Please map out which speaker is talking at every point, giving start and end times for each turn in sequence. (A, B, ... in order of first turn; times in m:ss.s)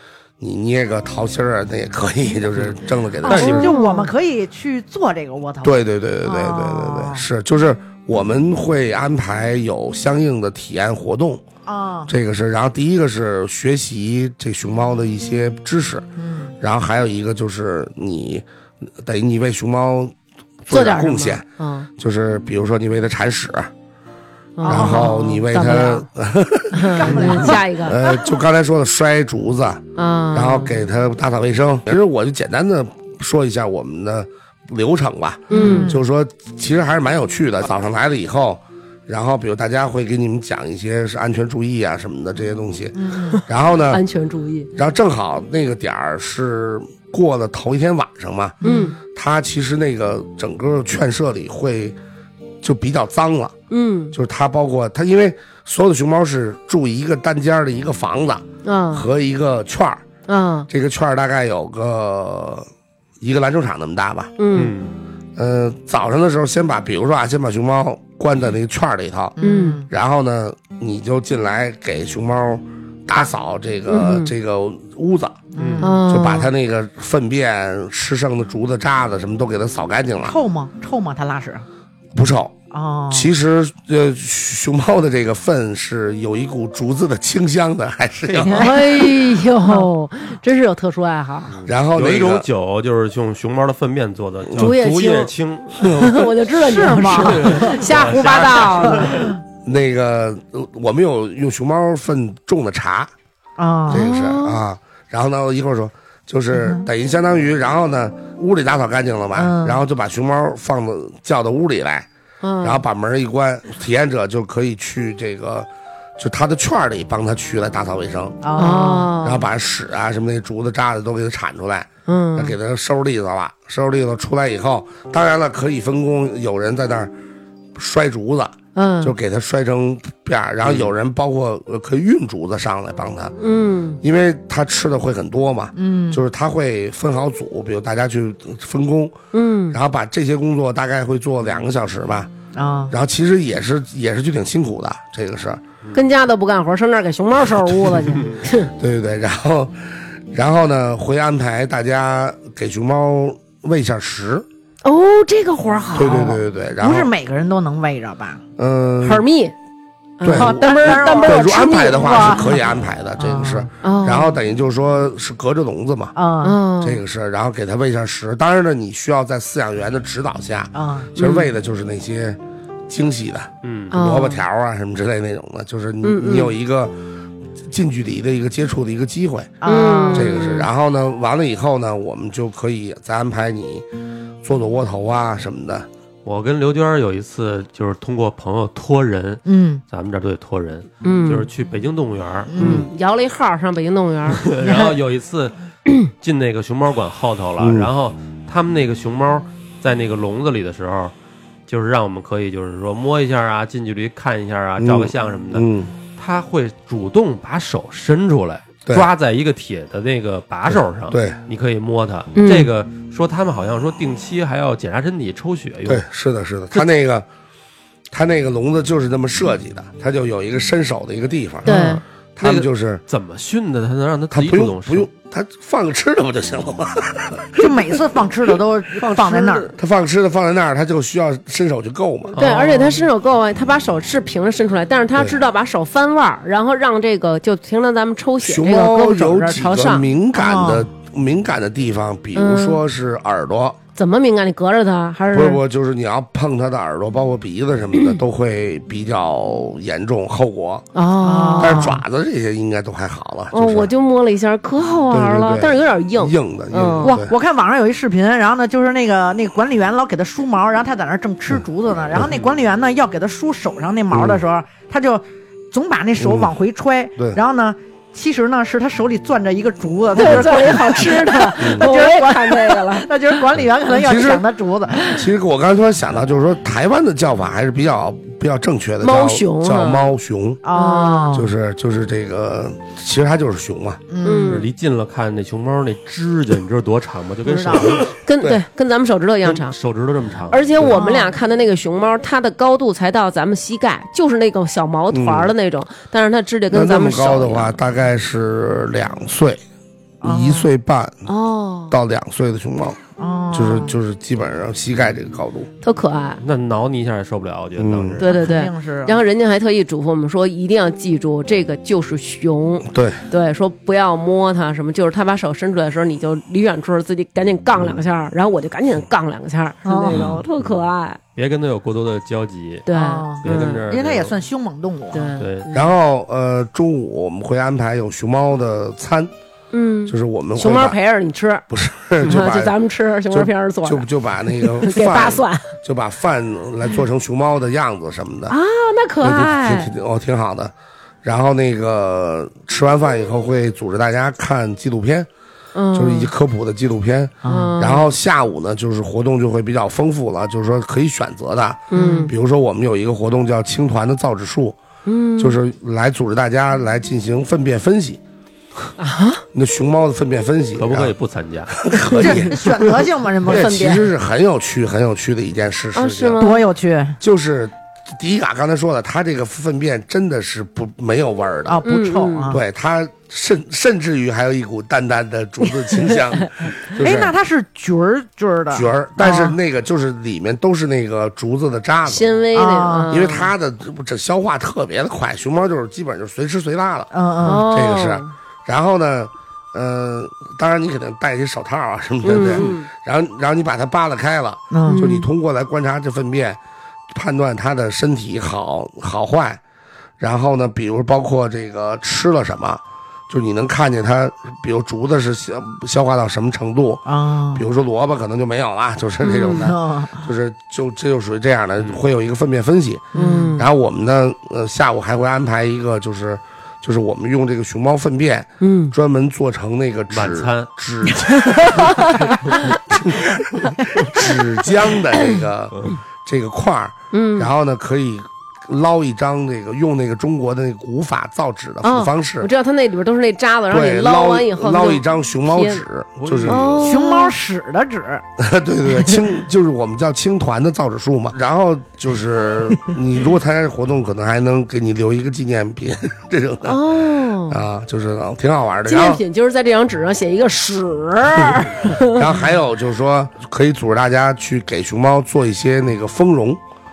0:00.4-0:03.7 A
0:03.2-0:04.1 B
0:03.2-0:03.7 C
0:03.3-0:07.3 D
0:05.6-0:11.4 A
0:11.6-0:12.1 D
0:12.1-0:16.1 A
0:16.2-0:16.6 D
0:16.6-0:20.1 A
0:20.6-0:21.4 A
0:20.7-0:21.9 B
0:22.0-0:23.7 A
0:24.6-0:26.0 B
0:24.6-0:25.3 D
0:24.6-0:44.0 A
0:26.7-0:27.6 D
0:26.7-0:28.1 B
0:30.0-0:30.7 B
0:35.5-0:35.9 B
0:35.5-0:36.0 D
0:42.9-0:43.4 D
0:43.3-0:44.7 B
0:44.7-0:52.0 A
0:48.6-0:48.9 D
0:48.6-0:49.0 B
0:52.6-0:53.5 A
0:53.7-0:54.2 B
0:54.1-1:00.0 A
0:58.6-0:59.0 B
1:00.3-1:00.7 B
1:00.7-1:02.7 A
1:03.2-1:04.3 A
1:04.4-1:04.7 B
1:04.5-1:05.0 C
1:05.4-1:09.4 A
1:09.4-1:09.9 D
1:09.4-1:09.8 B
1:09.9-1:15.4 A
1:13.9-1:14.3 B
1:15.5-1:16.0 D
1:15.6-1:15.8 C
1:15.8-1:16.5 B
1:16.0-1:20.4 A
1:20.2-1:21.6 D
1:22.1-1:22.5 A
1:22.7-1:23.3 D
1:23.1-1:28.7 A
1:28.2-1:28.7 C
1:28.4-1:29.9 D
1:28.6-1:31.5 B
1:31.5-1:36.2 C
1:31.6-1:32.5 A
1:34.6-1:39.2 B
1:35.8-1:36.2 A
1:36.5-1:37.8 D
1:37.1-1:39.3 C
1:38.2-1:38.5 A
1:38.9-1:39.2 D
1:39.6-1:43.1 A
1:43.6-1:44.1 D
1:43.9-1:52.1 A
1:43.9-1:44.6 B
1:46.5-1:46.9 D
1:49.3-1:49.8 D
1:52.4-1:52.8 B
1:52.6-1:58.4 A
1:58.4-1:59.1 D
1:58.5-1:59.4 B
1:59.2-2:07.1 A
2:02.0-2:02.6 B
2:07.7-2:13.3 A
2:08.7-2:09.1 B
2:10.6-2:10.9 C
2:13.4-2:14.0 B
2:14.0-2:19.2 A
2:15.7-2:16.2 D
2:19.3-2:19.8 B
2:19.7-2:22.3 A
2:22.5-2:22.9 D
2:22.9-2:25.6 A
2:25.9-2:28.7 B
2:28.7-2:34.4 A
2:34.8-2:36.4 B
2:35.9-2:37.1 A
2:36.0-2:38.4 D
2:38.6-2:39.2 A
2:39.0-2:39.5 B
2:40.2-2:42.4 B
2:40.2-2:46.1 A
2:40.3-2:43.7 D
2:43.8-2:44.4 B
2:46.1-2:46.6 D
2:46.4-2:47.0 B
2:46.8-2:57.0 A
2:50.7-2:51.1 D
2:51.2-2:51.5 B
2:53.6-2:53.9 C
2:53.9-2:54.4 B
2:56.0-2:56.5 B
2:57.6-3:03.8 A
2:59.6-3:00.5 D
2:59.6-3:00.7 B
3:04.4-3:05.9 A
3:06.2-3:12.8 C
3:09.4-3:09.8 D
3:11.0-3:11.5 B
3:12.5-3:12.9 D
3:12.6-3:14.5 B
3:14.3-3:15.5 C
3:14.6-3:14.9 D
3:16.2-3:21.1 C
3:17.6-3:17.9 A
3:21.7-3:36.0 C
3:24.8-3:25.9 A
3:30.7-3:31.4 A
3:32.4-3:32.7 B
3:35.8-3:37.2 A
3:38.1-3:41.8 A
3:41.6-3:42.0 B
3:41.7-3:45.1 C
3:42.4-3:43.0 A
3:44.3-3:47.8 A
3:47.6-3:49.7 D
3:49.0-3:52.4 A
3:52.3-3:53.0 C
3:52.4-4:00.0 B
3:58.4-4:03.8 A
4:00.3-4:00.9 D
4:02.3-4:02.8 B
4:04.0-4:05.6 B
4:05.3-4:10.8 A
4:10.9-4:12.0 B
4:11.2-4:12.0 D
4:11.6-4:13.9 A
4:13.5-4:17.2 B
4:15.1-4:17.3 A
4:17.0-4:35.2 D
4:24.1-4:24.4 A
4:26.2-4:26.5 A
4:30.2-4:33.4 B
4:31.6-4:31.8 A
4:33.9-4:34.4 A
4:35.1-4:40.6 A
4:39.0-4:40.1 B
4:40.6-4:41.5 D
4:40.7-4:41.4 B
4:41.3-4:44.0 A
4:44.1-4:44.6 D
4:44.2-4:44.7 B
4:44.5-4:48.1 C
4:47.4-4:48.0 D
4:48.1-4:49.8 B
4:49.4-4:50.6 C
4:50.5-4:57.8 B
4:50.9-4:51.4 D
4:55.1-4:55.5 A
4:56.7-4:59.6 A
5:00.2-5:00.7 D
5:00.2-5:01.2 A
5:01.2-5:01.9 B
5:01.9-5:03.0 A
5:03.2-5:04.0 D
5:03.5-5:05.7 A
5:05.8-5:06.4 B
5:06.4-5:08.4 C
5:07.8-5:08.2 A
5:08.2-5:21.2 B
5:08.2-5:09.2 D
5:12.9-5:13.2 A
5:19.8-5:20.4 D
5:20.1-5:20.4 C
5:21.4-5:22.9 C
5:22.8-5:23.8 B
5:22.9-5:25.4 D
5:23.4-5:24.4 C
5:25.1-5:25.9 B
5:25.4-5:25.7 C
5:25.7-5:29.3 A
5:29.7-5:31.6 B
5:30.1-5:31.0 A
5:31.7-5:32.8 A
5:32.2-5:35.7 B
5:33.3-5:38.6 A
5:38.5-5:39.9 B
5:39.2-5:40.7 A
5:41.2-5:45.3 A
5:45.7-5:46.3 B
5:45.9-5:54.8 A
5:47.4-5:47.7 D
5:47.4-5:48.1 B
5:51.9-5:52.3 B
5:51.9-5:52.3 D
5:55.0-5:55.6 B
5:55.4-5:58.2 A
5:59.0-5:59.4 B
5:59.5-6:01.1 A
6:00.8-6:01.8 C
6:01.7-6:06.4 A
6:02.0-6:02.6 B
6:02.1-6:04.0 D
6:03.4-6:04.1 B
6:05.9-6:06.6 B
6:06.4-6:07.2 D
6:07.2-6:11.8 A
6:11.6-6:12.6 D
6:11.8-6:12.5 B
6:12.5-6:17.3 A
6:16.8-6:19.6 D
6:18.7-6:22.4 A
6:22.0-6:23.5 B
6:22.5-6:23.2 D
6:23.1-6:36.6 A
6:27.1-6:27.6 D
6:27.4-6:28.3 B
6:32.2-6:32.9 B
6:34.7-6:35.0 D
6:34.8-6:35.3 B
6:37.1-6:39.6 A
6:40.2-7:12.5 A
6:47.0-6:47.6 D
6:49.2-6:49.7 B
6:49.6-6:50.3 D
6:53.1-6:53.6 D
6:53.1-6:53.7 B
6:58.6-6:58.9 B
7:00.1-7:00.7 C
7:01.9-7:02.6 B
7:07.1-7:07.5 B
7:11.8-7:15.8 B
7:13.7-7:16.6 A
7:16.2-7:16.9 C
7:16.5-7:17.4 B
7:16.8-7:18.2 D
7:18.4-7:26.8 A
7:18.8-7:19.2 D
7:26.6-7:27.6 B
7:27.5-7:29.2 A
7:28.8-7:32.3 B
7:32.1-7:36.6 A